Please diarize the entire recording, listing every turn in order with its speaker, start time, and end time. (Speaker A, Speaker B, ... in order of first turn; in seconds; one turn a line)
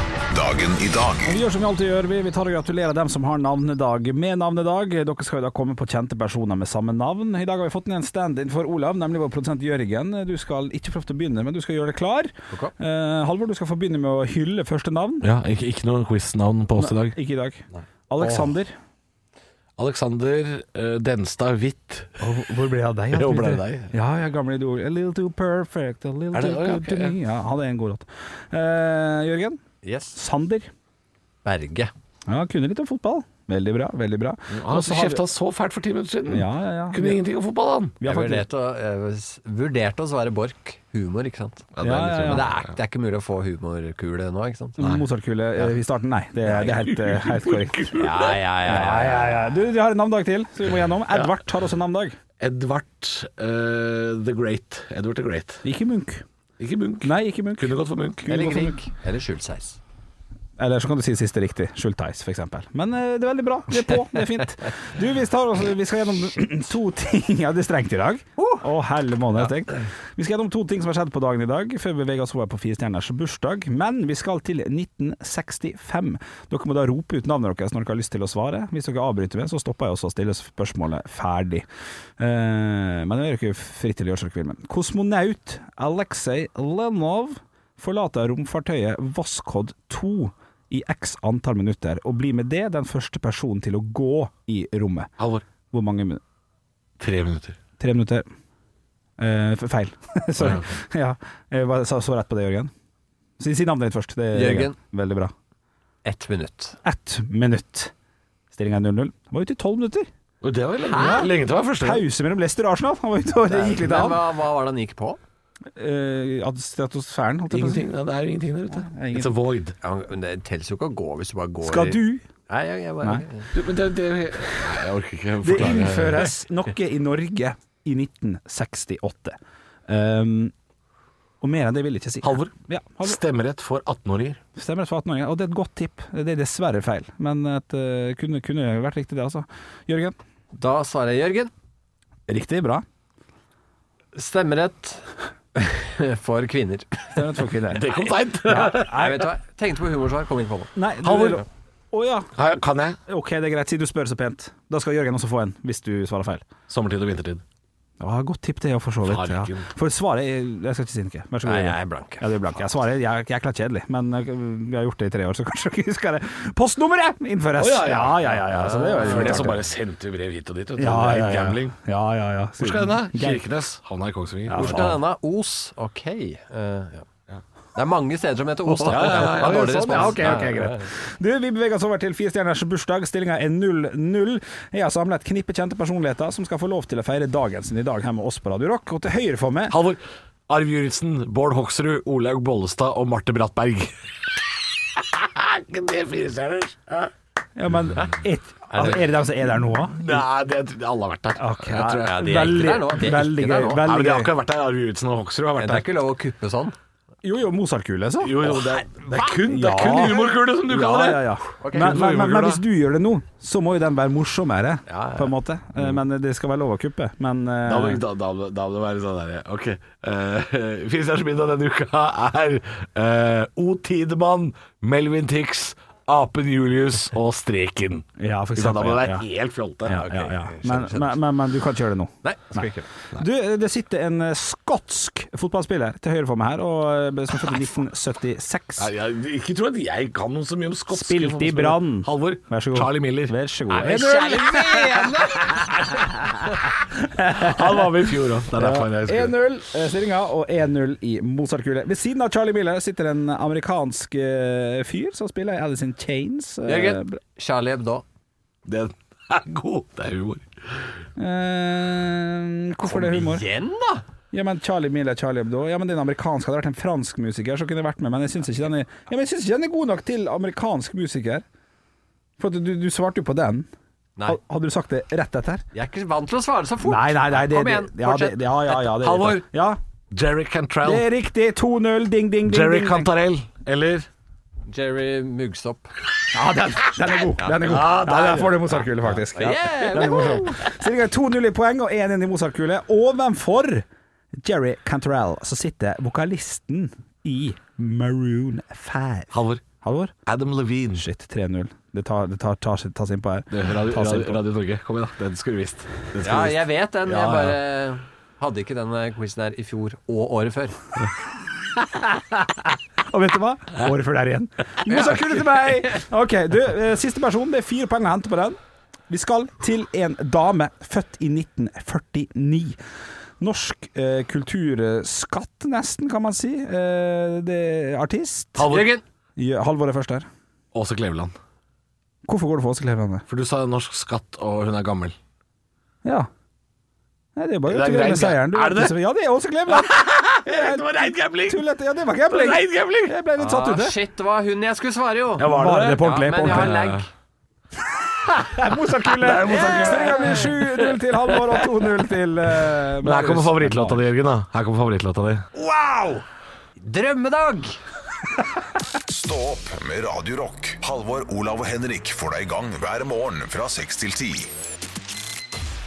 Speaker A: 0.3-1.3
Speaker B: 1.2-15.3
Speaker C: 15.2-17.2
Speaker B: 16.8-18.8
Speaker C: 17.8-18.5
Speaker C: 19.8-22.2
Speaker B: 22.2-29.6
Speaker C: 23.1-23.9
Speaker C: 26.3-27.2
Speaker D: 29.8-30.2
Speaker B: 30.1-30.7
Speaker D: 31.4-31.9
Speaker B: 32.3-35.2
Speaker C: 34.5-38.0
Speaker B: 36.3-37.2
Speaker B: 38.0-38.5
Speaker D: 38.0-41.7
Speaker C: 41.7-42.7
Speaker B: 41.8-42.5
Speaker D: 42.3-44.8
Speaker B: 44.8-47.9
Speaker C: 44.8-45.0
Speaker C: 46.5-48.4
Speaker D: 48.0-49.5
Speaker B: 48.6-52.2
Speaker C: 52.4-55.6
Speaker B: 55.6-56.2
Speaker C: 56.6-58.5
Speaker B: 57.0-58.8
Speaker D: 58.3-59.8
Speaker B: 60.6-81.7
Speaker B: 82.2-95.1
Speaker C: 95.2-95.5
Speaker B: 95.7-96.2
Speaker C: 97.0-97.6
Speaker B: 97.8-98.3
Speaker B: 99.2-102.7
Speaker C: 100.4-100.7
Speaker B: 103.4-105.3
Speaker D: 104.3-104.8
Speaker D: 106.0-106.8
Speaker B: 106.8-107.9
Speaker B: 108.5-110.1
Speaker C: 110.4-112.1
Speaker D: 110.9-111.3
Speaker B: 111.0-111.3
Speaker B: 111.8-114.2
Speaker D: 113.5-115.2
Speaker B: 115.8-117.9
Speaker C: 117.5-119.8
Speaker B: 118.7-119.3
Speaker D: 119.8-123.5
Speaker B: 121.6-122.2
Speaker C: 123.5-126.3
Speaker B: 125.4-129.4
Speaker B: 129.9-130.5
Speaker B: 131.4-133.2
Speaker C: 132.2-134.4
Speaker B: 134.6-140.2
Speaker D: 140.5-141.5
Speaker B: 142.3-142.8
Speaker D: 144.2-147.2
Speaker B: 147.1-147.9
Speaker C: 147.7-149.1
Speaker B: 148.5-149.2
Speaker D: 148.7-151.4
Speaker B: 150.8-152.3
Speaker C: 151.0-151.4
Speaker C: 152.3-153.0
Speaker B: 153.1-156.4
Speaker C: 156.7-157.4
Speaker B: 158.0-169.6
Speaker C: 159.0-159.7
Speaker D: 161.4-162.3
Speaker C: 167.6-171.8
Speaker D: 168.5-169.5
Speaker B: 170.8-173.4
Speaker C: 172.6-175.0
Speaker B: 174.5-175.0
Speaker D: 174.5-177.1
Speaker D: 177.8-180.9
Speaker B: 178.7-189.8
Speaker C: 178.9-180.5
Speaker C: 189.7-194.1
Speaker C: 194.9-197.1
Speaker B: 197.6-200.2
Speaker D: 198.7-199.1
Speaker C: 199.9-202.7
Speaker B: 201.4-204.3
Speaker D: 202.0-203.8
Speaker C: 203.7-205.9
Speaker D: 205.6-206.8
Speaker B: 207.2-208.5
Speaker C: 208.2-212.6
Speaker B: 209.4-218.0
Speaker D: 211.6-211.9
Speaker D: 214.9-215.3
Speaker C: 217.7-230.0
Speaker B: 228.2-229.3
Speaker B: 229.8-238.9
Speaker D: 229.9-231.2
Speaker D: 232.2-232.8
Speaker C: 238.8-243.4
Speaker B: 240.9-247.9
Speaker D: 243.7-246.1
Speaker C: 247.4-249.4
Speaker B: 248.5-257.2
Speaker D: 256.7-258.0
Speaker C: 258.7-260.9
Speaker B: 261.2-263.4
Speaker D: 262.9-264.0
Speaker B: 264.3-271.4
Speaker B: 272.4-273.7
Speaker B: 274.3-275.6
Speaker D: 275.7-279.0
Speaker B: 276.8-279.8
Speaker C: 278.9-279.4
Speaker C: 280.1-281.1
Speaker B: 280.8-283.1
Speaker C: 282.4-284.1
Speaker D: 284.7-285.9
Speaker B: 286.3-293.9
Speaker C: 287.6-288.8
Speaker D: 289.2-290.7
Speaker B: 294.4-300.1
Speaker C: 299.3-299.6
Speaker C: 300.3-301.1
Speaker B: 301.0-304.4
Speaker C: 303.5-307.6
Speaker D: 306.2-310.8
Speaker B: 313.1-322.8
Speaker B: 323.4-328.7
Speaker C: 328.6-329.0
Speaker D: 328.7-329.0
Speaker B: 329.4-330.3
Speaker C: 330.7-331.4
Speaker B: 332.3-333.2
Speaker C: 333.3-335.2
Speaker B: 337.4-343.9
Speaker C: 337.7-339.0
Speaker C: 339.7-341.7
Speaker C: 342.2-343.1
Speaker D: 343.4-347.1
Speaker C: 345.4-347.1
Speaker B: 345.4-346.8
Speaker B: 348.4-354.0
Speaker C: 349.1-351.6
Speaker D: 349.5-350.5
Speaker C: 352.8-355.5
Speaker D: 355.6-356.2
Speaker D: 356.8-357.8
Speaker A: 359.1-364.5